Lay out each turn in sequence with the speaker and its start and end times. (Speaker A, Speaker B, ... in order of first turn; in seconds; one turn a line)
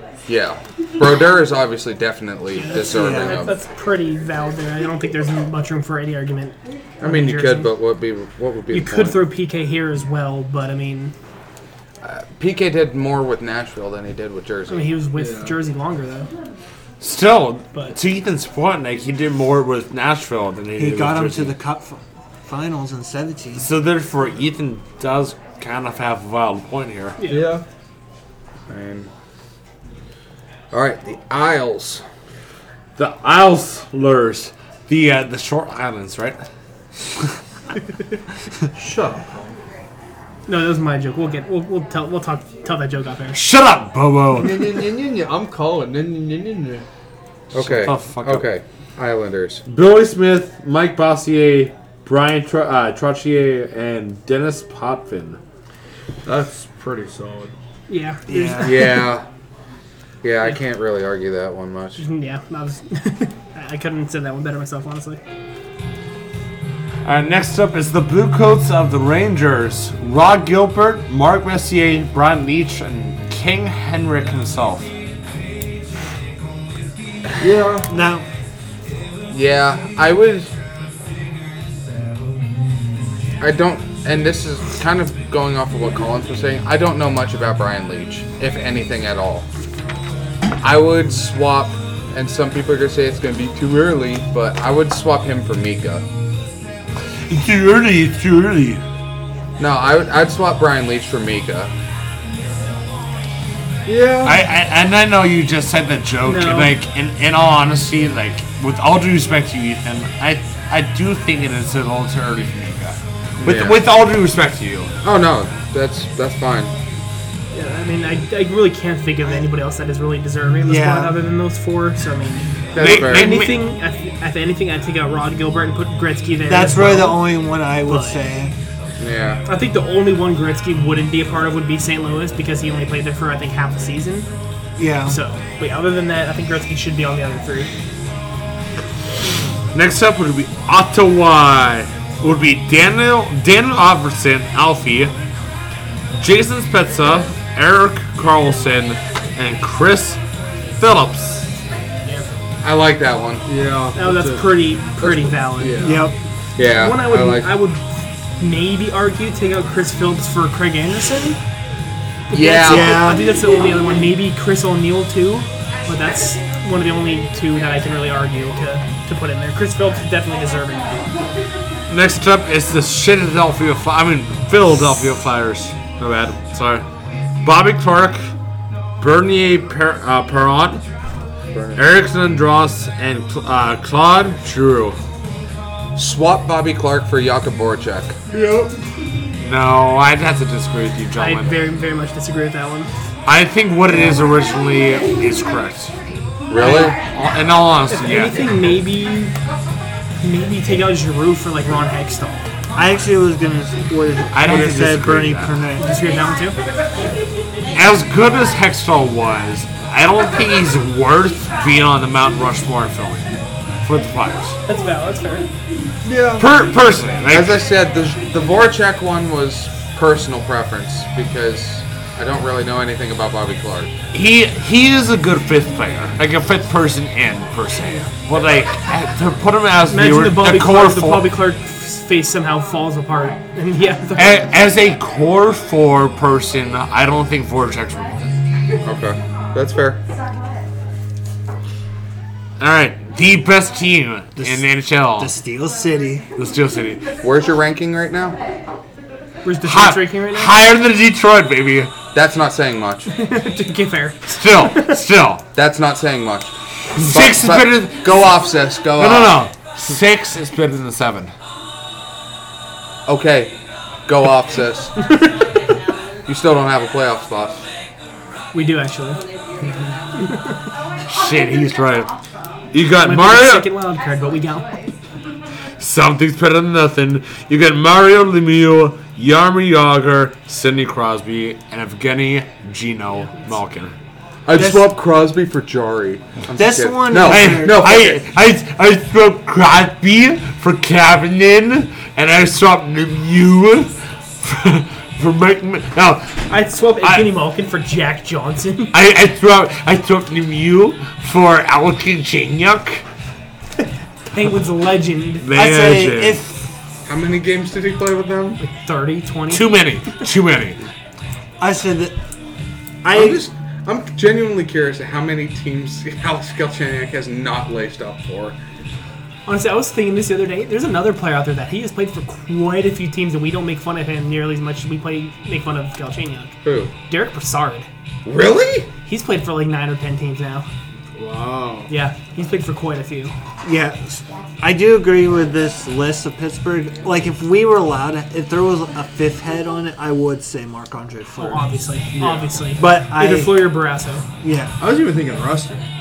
Speaker A: 0.3-3.5
Speaker B: 2.5-7.7
Speaker C: 2.7-3.4
Speaker A: 7.0-9.2
Speaker B: 8.7-11.1
Speaker A: 12.0-14.9
Speaker B: 14.7-16.3
Speaker D: 15.2-15.6
Speaker E: 17.0-21.5
Speaker C: 20.8-23.7
Speaker E: 23.6-27.2
Speaker B: 27.2-27.6
Speaker D: 27.2-27.6
Speaker A: 28.7-29.1
Speaker A: 30.7-32.0
Speaker E: 33.0-36.4
Speaker D: 38.7-39.5
Speaker B: 40.5-43.4
Speaker E: 43.3-44.8
Speaker D: 44.3-46.8
Speaker A: 47.5-49.6
Speaker E: 47.5-48.5
Speaker E: 49.7-55.4
Speaker D: 56.2-57.5
Speaker B: 57.9-59.1
Speaker C: 58.3-58.9
Speaker A: 58.6-59.2
Speaker A: 60.2-62.0
Speaker B: 62.0-65.2
Speaker E: 67.0-74.9
Speaker D: 77.4-77.9
Speaker C: 77.9-78.2
Speaker A: 79.3-80.5
Speaker A: 83.4-89.5
Speaker A: 90.6-96.0
Speaker E: 97.3-98.8
Speaker A: 99.6-101.7
Speaker D: 103.8-104.4
Speaker E: 104.2-114.9
Speaker B: 106.2-106.7
Speaker A: 113.4-113.8
Speaker A: 115.0-116.7
Speaker B: 117.5-128.2
Speaker C: 120.6-121.2
Speaker A: 122.7-123.4
Speaker E: 122.8-123.6
Speaker C: 126.5-128.5
Speaker A: 129.0-129.4
Speaker B: 129.4-134.3
Speaker C: 134.8-135.2
Speaker B: 135.1-137.7
Speaker E: 139.7-145.1
Speaker E: 146.2-150.2
Speaker E: 150.8-151.5
Speaker A: 152.6-153.4
Speaker D: 153.4-154.5
Speaker B: 153.9-156.1
Speaker D: 155.6-156.1
Speaker C: 155.8-156.1
Speaker A: 156.6-157.5
Speaker B: 156.7-161.4
Speaker B: 162.3-171.0
Speaker A: 162.3-163.1
Speaker C: 162.7-163.3
Speaker E: 171.9-176.8
Speaker E: 177.4-178.2
Speaker E: 179.0-180.8
Speaker A: 181.5-181.8
Speaker E: 181.8-185.0
Speaker A: 185.9-188.2
Speaker D: 188.3-188.7
Speaker E: 189.4-191.5
Speaker B: 191.2-192.9
Speaker E: 193.2-195.9
Speaker A: 196.5-197.0
Speaker B: 196.6-196.9
Speaker E: 196.7-198.5
Speaker B: 197.9-199.3
Speaker B: 200.2-202.5
Speaker C: 202.7-205.9
Speaker E: 204.3-205.6
Speaker B: 205.8-206.6
Speaker E: 207.7-214.6
Speaker B: 214.7-215.4
Speaker D: 216.0-216.4
Speaker E: 216.4-217.6
Speaker A: 217.3-223.9
Speaker E: 224.1-231.3
Speaker B: 229.9-234.4
Speaker E: 234.2-238.3
Speaker A: 238.8-240.0
Speaker E: 242.6-245.3
Speaker C: 244.4-246.3
Speaker E: 246.3-247.1
Speaker A: 247.2-248.4
Speaker B: 249.4-250.5
Speaker E: 249.6-251.9
Speaker A: 252.1-253.1
Speaker B: 253.1-255.0
Speaker E: 254.3-255.4
Speaker A: 255.5-259.4
Speaker E: 256.9-258.3
Speaker E: 259.0-261.3
Speaker A: 263.1-263.5
Speaker A: 264.1-264.9
Speaker B: 265.1-265.4
Speaker A: 266.2-267.6
Speaker B: 268.5-269.2
Speaker B: 270.1-270.6
Speaker E: 271.1-272.1
Speaker E: 272.7-273.7
Speaker B: 273.0-274.9
Speaker E: 275.8-283.9
Speaker A: 284.4-288.2
Speaker C: 284.5-284.9
Speaker C: 286.6-287.9
Speaker E: 287.1-297.3
Speaker B: 296.5-298.9
Speaker E: 298.9-303.0
Speaker B: 304.3-305.5
Speaker E: 305.4-306.4
Speaker C: 305.5-306.7
Speaker A: 307.1-308.6
Speaker B: 308.6-309.7
Speaker E: 309.5-310.8
Speaker C: 311.6-312.1
Speaker C: 313.0-313.4
Speaker A: 313.1-318.6
Speaker B: 319.4-326.6
Speaker A: 326.6-326.9
Speaker B: 327.1-327.9
Speaker A: 328.2-328.9
Speaker B: 329.1-330.7
Speaker D: 331.2-331.9
Speaker B: 331.9-333.3
Speaker C: 333.6-341.6
Speaker B: 341.4-344.2
Speaker D: 342.1-342.5
Speaker C: 342.8-343.8
Speaker C: 344.4-344.7
Speaker D: 344.8-345.8